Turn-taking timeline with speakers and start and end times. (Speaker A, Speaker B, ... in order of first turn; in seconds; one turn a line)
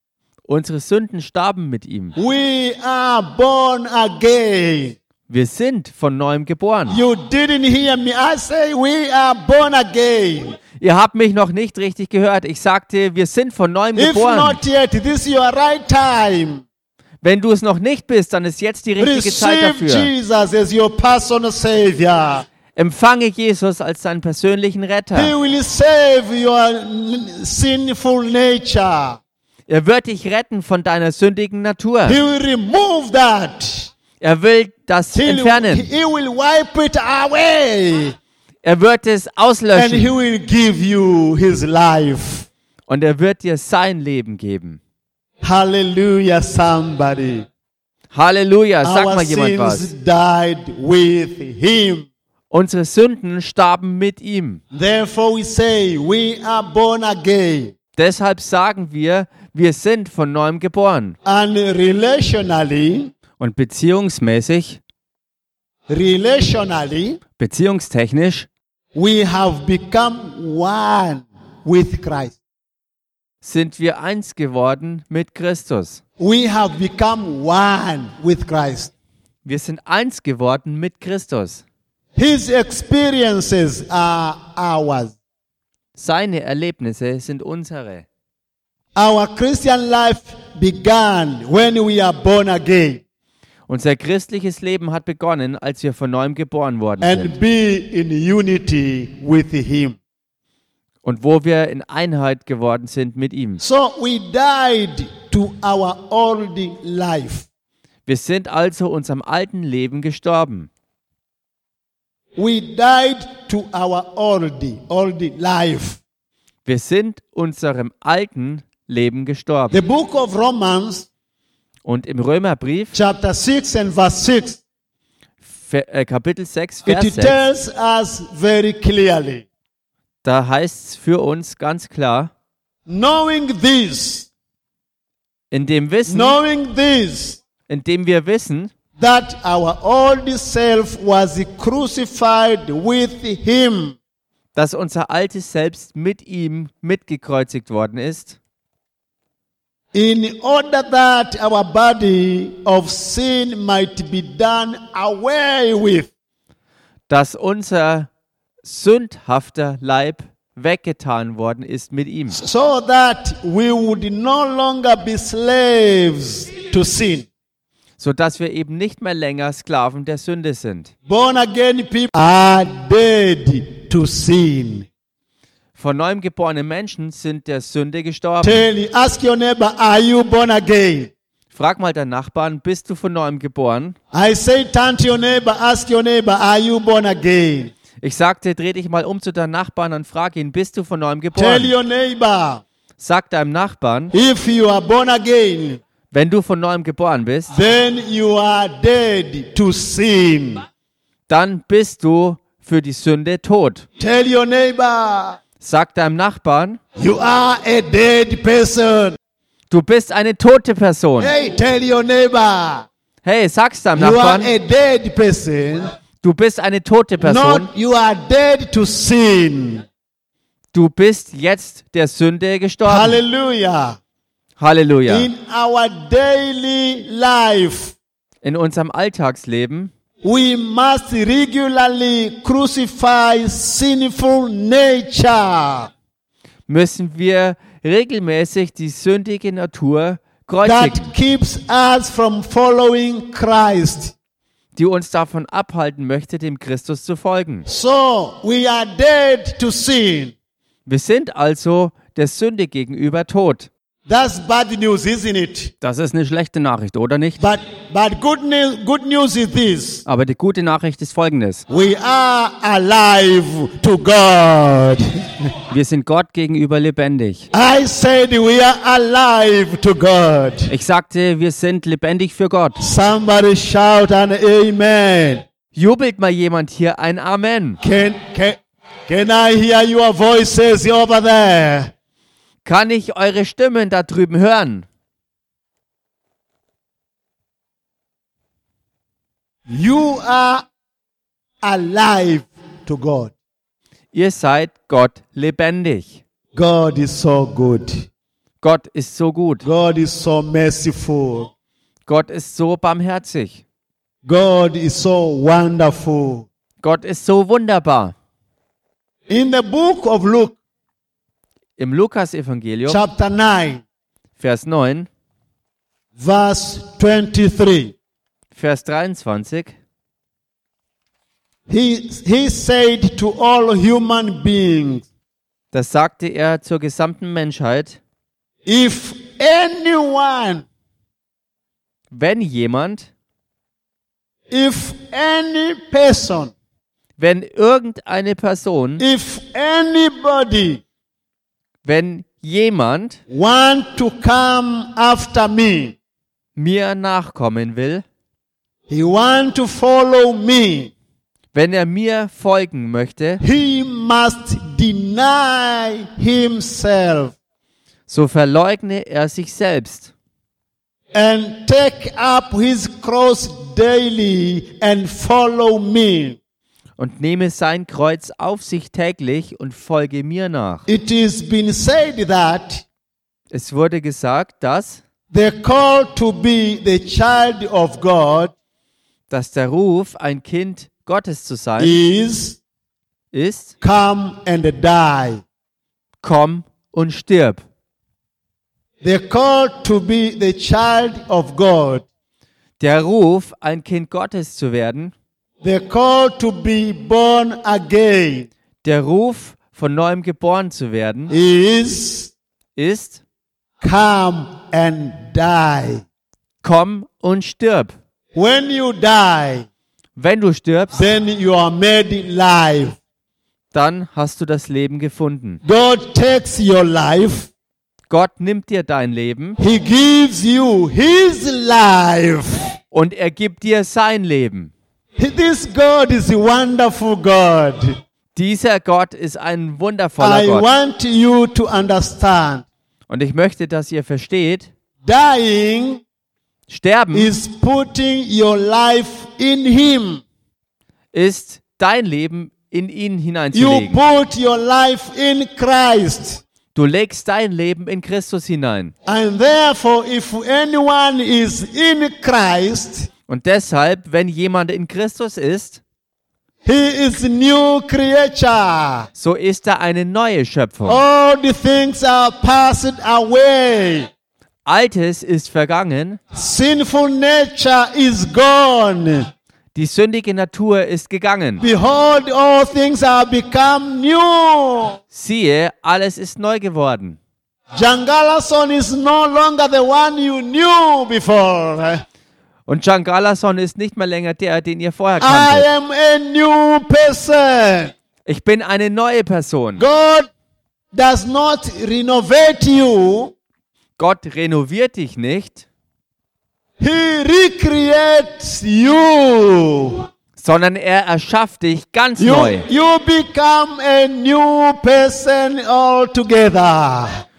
Speaker A: 0.5-2.1
Speaker B: 2.2-5.0
Speaker A: 5.3-7.0
Speaker B: 6.9-10.6
Speaker A: 10.8-14.6
Speaker B: 13.9-16.6
Speaker A: 17.2-20.1
Speaker B: 19.0-22.5
Speaker A: 22.8-25.3
Speaker B: 25.1-29.2
Speaker A: 29.7-32.2
Speaker B: 32.1-33.9
Speaker A: 34.2-35.9
Speaker B: 35.1-38.2
Speaker A: 38.6-40.1
Speaker B: 39.8-42.5
Speaker A: 42.9-44.8
Speaker B: 45.4-47.5
Speaker A: 48.1-49.9
Speaker B: 48.8-52.1
Speaker A: 52.5-54.6
Speaker B: 54.7-57.7
Speaker A: 58.0-61.2
Speaker B: 61.2-63.1
Speaker A: 63.4-64.8
Speaker B: 65.9-67.2
Speaker A: 67.4-68.5
Speaker B: 69.0-72.4
Speaker A: 73.4-76.0
Speaker B: 76.2-78.9
Speaker A: 79.5-81.6
Speaker B: 82.2-85.2
Speaker A: 86.0-88.1
Speaker B: 89.0-93.0
Speaker A: 93.7-97.4
Speaker B: 97.0-100.0
Speaker A: 101.0-103.6
Speaker B: 103.6-107.5
Speaker A: 108.1-110.7
Speaker B: 112.4-116.0
Speaker A: 116.7-119.8
Speaker B: 119.7-121.1
Speaker A: 121.8-123.0
Speaker B: 122.9-124.6
Speaker A: 125.6-127.4
Speaker B: 126.8-129.5
Speaker A: 130.2-132.3
Speaker B: 132.9-134.3
Speaker A: 135.5-136.4
Speaker B: 136.1-137.4
Speaker A: 137.7-138.7
Speaker B: 139.0-144.0
Speaker A: 144.6-148.4
Speaker B: 149.9-156.1
Speaker A: 157.1-158.1
Speaker A: 158.6-162.4
Speaker B: 162.3-167.3
Speaker A: 168.0-170.9
Speaker B: 171.1-174.9
Speaker A: 175.8-178.7
Speaker B: 178.4-181.1
Speaker A: 181.5-184.0
Speaker B: 184.1-187.7
Speaker A: 188.0-191.7
Speaker B: 191.3-192.6
Speaker A: 193.0-194.1
Speaker B: 194.1-195.8
Speaker A: 196.1-197.5
Speaker B: 197.5-200.6
Speaker A: 201.3-203.8
Speaker B: 204.0-205.4
Speaker A: 205.6-206.8
Speaker B: 207.0-209.2
Speaker A: 209.7-211.3
Speaker B: 211.2-212.9
Speaker A: 213.2-214.5
Speaker B: 214.0-215.9
Speaker A: 216.2-217.7
Speaker B: 217.2-219.8
Speaker A: 220.7-223.2
Speaker B: 222.9-224.0
Speaker A: 224.6-225.3
Speaker B: 225.1-228.0
Speaker A: 228.4-229.9
Speaker B: 230.2-235.9
Speaker A: 236.7-241.1
Speaker B: 240.6-244.1
Speaker A: 244.8-247.7
Speaker B: 247.7-250.3
Speaker A: 250.9-253.7
Speaker B: 254.1-255.7
Speaker A: 255.8-257.4
Speaker B: 257.4-260.1
Speaker A: 260.1-261.6
Speaker B: 261.7-265.0
Speaker A: 265.7-267.5
Speaker B: 267.5-270.7
Speaker A: 270.7-272.8
Speaker B: 272.8-275.4
Speaker A: 275.7-277.8
Speaker B: 277.8-281.9
Speaker A: 282.6-284.9
Speaker B: 289.7-290.7
Speaker B: 291.6-293.3
Speaker A: 294.1-296.2
Speaker B: 296.6-298.1
Speaker A: 298.6-299.7
Speaker B: 299.6-301.5
Speaker A: 302.1-303.6
Speaker B: 304.2-306.5
Speaker A: 306.8-308.1
Speaker B: 309.3-310.6
Speaker A: 311.8-313.0
Speaker B: 312.9-313.8
Speaker A: 314.4-315.1
Speaker B: 316.2-317.9
Speaker A: 318.5-319.8
Speaker B: 321.7-325.1
Speaker A: 325.7-328.0
Speaker B: 328.7-330.7
Speaker A: 332.1-333.1
Speaker B: 334.5-336.5
Speaker A: 337.2-339.0
Speaker B: 339.0-340.8
Speaker A: 341.9-343.2
Speaker B: 343.3-346.0
Speaker A: 346.6-348.0
Speaker B: 348.9-350.9
Speaker A: 351.5-353.4
Speaker B: 353.4-357.4
Speaker A: 358.1-360.1
Speaker B: 361.1-366.4
Speaker A: 367.0-370.9
Speaker B: 370.9-372.9
Speaker A: 373.5-375.0
Speaker B: 375.3-378.5
Speaker A: 379.3-382.0
Speaker B: 381.8-382.6
Speaker A: 383.3-383.7
Speaker B: 383.8-385.4
Speaker A: 386.2-387.6
Speaker B: 389.0-392.1
Speaker A: 392.8-395.1
Speaker B: 395.6-398.5
Speaker A: 398.8-401.3
Speaker B: 401.3-402.3
Speaker A: 402.8-403.2
Speaker B: 403.8-406.0
Speaker A: 406.6-407.9
Speaker B: 408.3-409.7
Speaker A: 410.2-411.0
Speaker B: 410.9-413.0
Speaker A: 413.7-415.6
Speaker B: 415.6-417.5
Speaker A: 418.1-419.6
Speaker B: 419.6-422.7
Speaker A: 422.9-424.7
Speaker B: 425.2-428.0
Speaker A: 428.4-430.7
Speaker B: 430.2-432.7
Speaker A: 433.1-434.7
Speaker B: 435.0-436.0
Speaker A: 436.7-437.3
Speaker B: 437.1-440.2
Speaker A: 441.1-444.0
Speaker B: 443.5-446.4
Speaker A: 446.8-448.9
Speaker B: 449.1-453.1
Speaker A: 453.3-455.8
Speaker B: 456.6-459.1
Speaker A: 459.2-461.0
Speaker B: 460.9-464.1
Speaker A: 464.7-466.2
Speaker B: 466.3-469.3
Speaker A: 469.8-471.6
Speaker B: 471.6-475.0
Speaker A: 475.1-477.2
Speaker B: 477.7-482.0
Speaker A: 482.7-485.7
Speaker B: 485.2-487.9
Speaker A: 488.3-489.8
Speaker B: 489.8-490.3
Speaker B: 490.9-493.3
Speaker A: 494.0-495.6
Speaker B: 496.8-500.0
Speaker A: 500.4-502.6
Speaker B: 502.2-507.1